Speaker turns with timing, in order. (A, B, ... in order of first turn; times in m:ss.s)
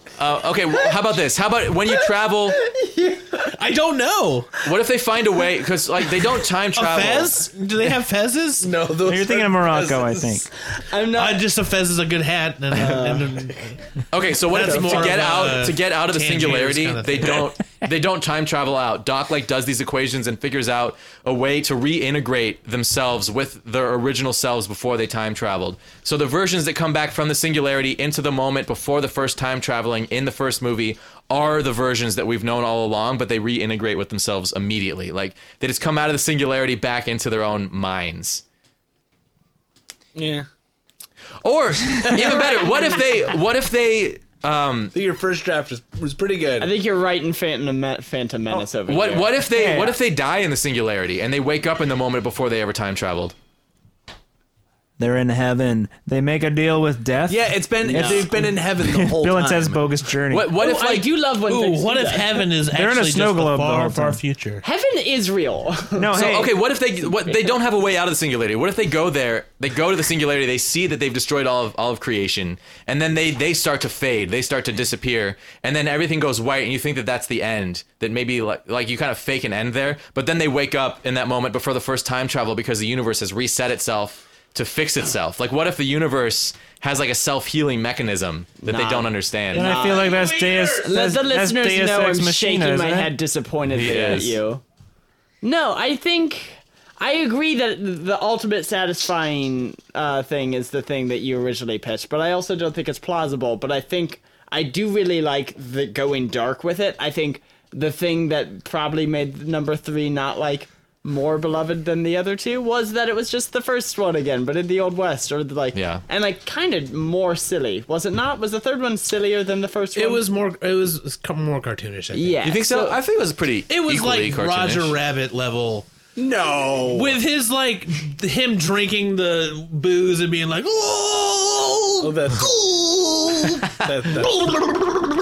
0:00.2-0:02.6 A
0:02.6-0:03.5 B
0:03.4-0:04.6 C
0:04.6-0:08.0 A
0:06.7-0:08.7 C
0:08.6-0:10.5 D
0:09.0-0:10.5 E
0:10.9-0:11.4 B
0:11.1-0:13.8 C
0:12.7-0:13.5 B
0:14.1-0:38.4 A
0:14.5-0:17.5 C
0:14.6-0:15.5 D
0:40.1-0:40.5 D
0:41.4-0:44.9 A
0:42.1-0:42.9 D
0:44.9-0:46.8 D
0:46.6-0:49.3 B
0:48.8-0:53.3 A
0:49.5-0:50.0 E
0:55.0-1:00.5 E
0:57.3-0:59.8 D
0:57.9-0:58.3 B
1:00.3-1:01.1 A
1:00.5-1:02.4 B
1:01.4-1:04.6 C
1:02.7-1:04.2 E
1:04.6-1:06.2 B
1:05.9-1:06.5 E
1:06.1-1:29.7 A
1:07.0-1:07.5 B
1:28.6-1:34.6 B
1:29.5-1:33.1 E
1:29.7-1:31.0 C
1:33.7-1:34.4 A
1:35.4-2:00.2 B
1:55.7-1:56.0 A
1:59.9-2:02.4 C
2:02.1-2:03.0 B
2:02.4-2:05.0 A
2:03.7-2:05.9 C
2:06.2-2:07.2 D
2:06.9-2:12.4 C
2:12.0-2:14.8 D